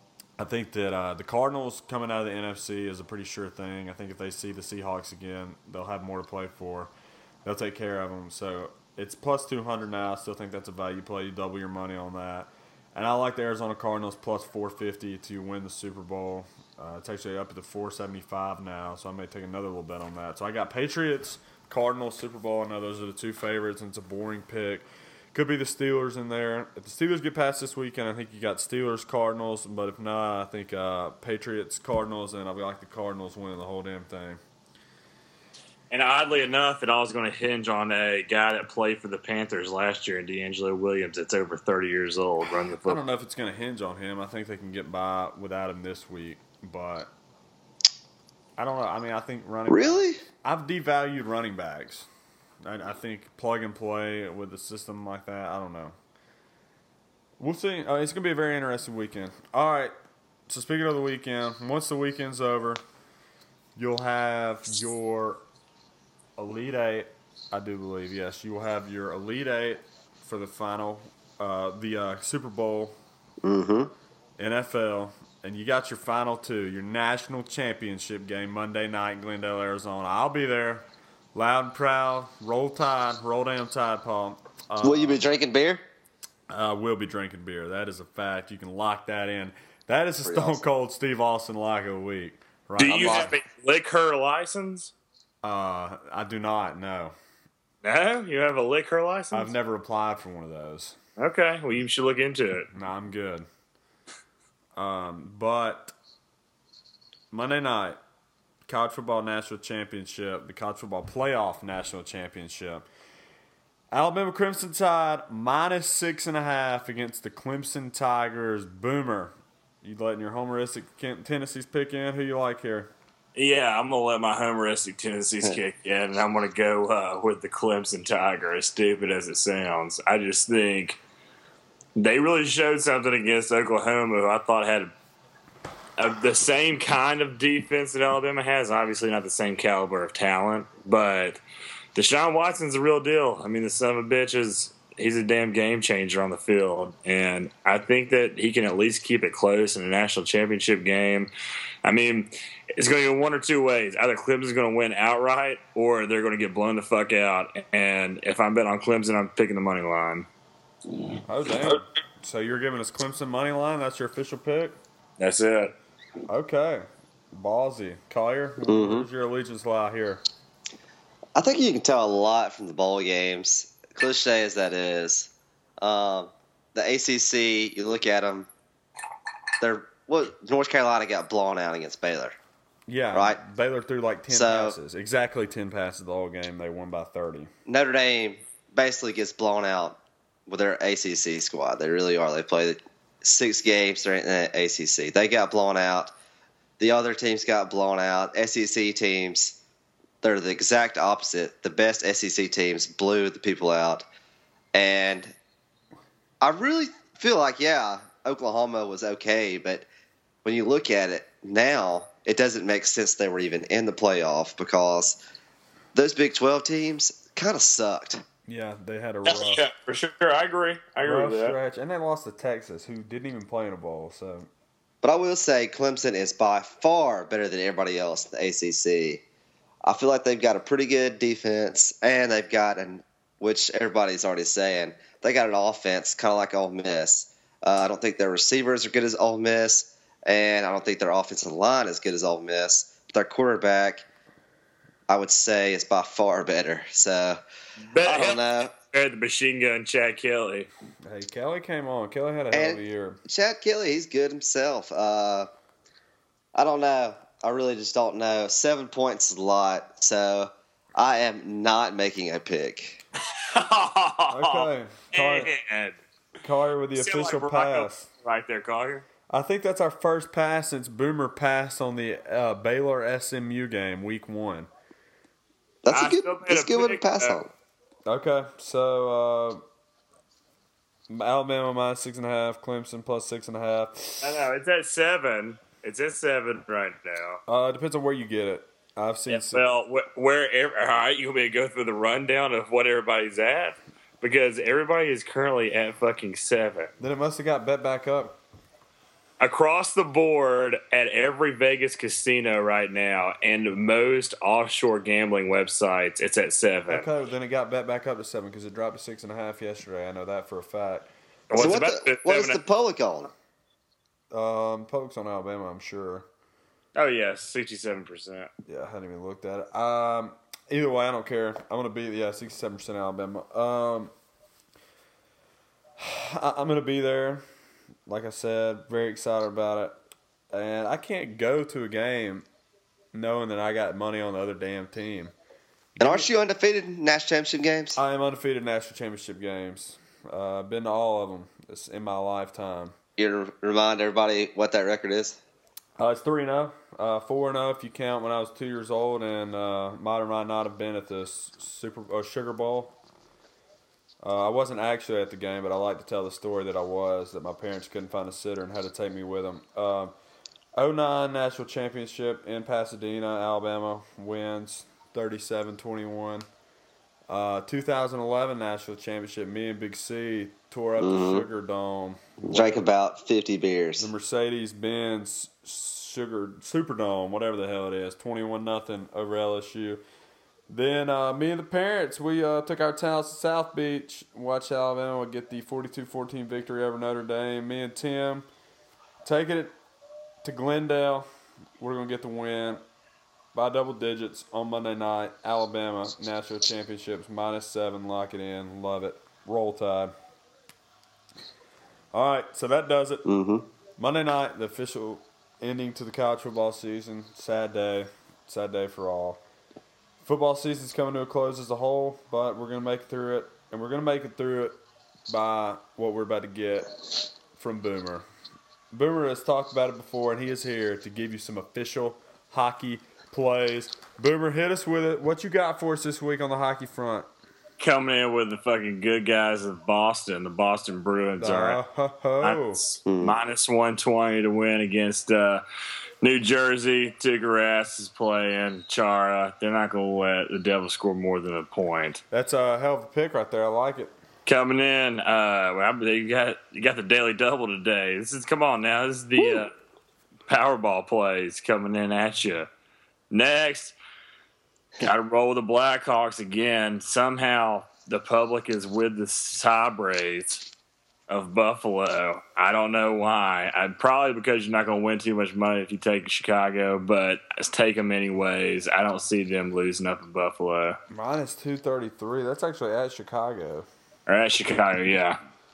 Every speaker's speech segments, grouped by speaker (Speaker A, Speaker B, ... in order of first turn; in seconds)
Speaker A: 0.4-6.9, 7.5-34.4, 42.7-47.1, 48.6-52.1, 52.6-56.0, 57.4-59.9, 60.5-62.8, 63.8-65.4, 66.4-73.0, 74.4-85.2, 86.5-93.3, 95.4-97.2, 99.3-101.0, 102.7-103.5, 104.8-106.0, 107.3-108.0, 108.7-112.9, 113.9-122.9, 161.3-164.8, 166.3-170.2, 182.9-187.5, 218.5-219.7, 221.0-224.5, 251.1-253.2, 264.3-265.5, 266.4-268.1, 269.3-274.7, 278.1-279.6, 281.1-284.4, 287.5-289.6, 297.0-298.4, 306.9-311.1, 314.3-316.3, 318.7-324.1, 326.0-327.4, 328.1-330.0, 330.5-332.5, 333.1-335.3, 336.0-336.3, 338.0-342.9, 346.0-353.0, 354.2-360.1, 360.8-366.5, 367.3-372.8, 374.0-380.0, 380.7-388.5, 389.2-389.7, 390.4-391.3, 391.8-392.8, 393.5-400.1, 402.1-403.2, 404.0-409.4, 410.2-414.8, 415.3-416.9, 417.5-418.3, 418.9-427.3, 431.4-432.8, 442.3-444.1, 471.1-473.9
Speaker B: 35.9-43.0, 92.8-94.9, 97.8-99.5, 101.2-102.7, 123.3-131.0, 132.0-134.9, 136.0-141.4, 141.9-151.3, 151.8-160.3, 165.2-165.8, 219.2-221.6, 247.9-250.7, 263.5-266.0, 267.0-269.1, 275.9-277.4, 284.2-287.4, 289.3-296.9, 299.4-307.1, 311.5-312.6, 316.9-318.5, 427.8-431.8, 432.4-435.6, 436.2-442.2, 444.5-449.7, 450.5-452.7, 453.3-454.0, 455.0-460.7, 461.3-471.0, 474.3-475.4
Speaker C: 49.7-50.2, 73.4-73.9, 84.8-85.8, 90.2-90.6, 168.7-169.1, 171.4-178.5, 179.6-182.4, 183.1-183.4, 184.3-184.8, 187.7-196.1, 196.8-199.6, 200.2-204.1, 204.7-205.3, 206.4-209.9, 210.4-215.2, 215.9-218.2, 225.0-229.2, 229.8-244.1, 245.1-247.4, 248.0-248.7, 252.5-255.5, 256.6-263.0, 275.8-277.5, 311.5-313.3, 336.0-338.0, 343.2-345.4, 371.0-371.4, 372.4-374.1, 403.3-403.7, 433.1-433.4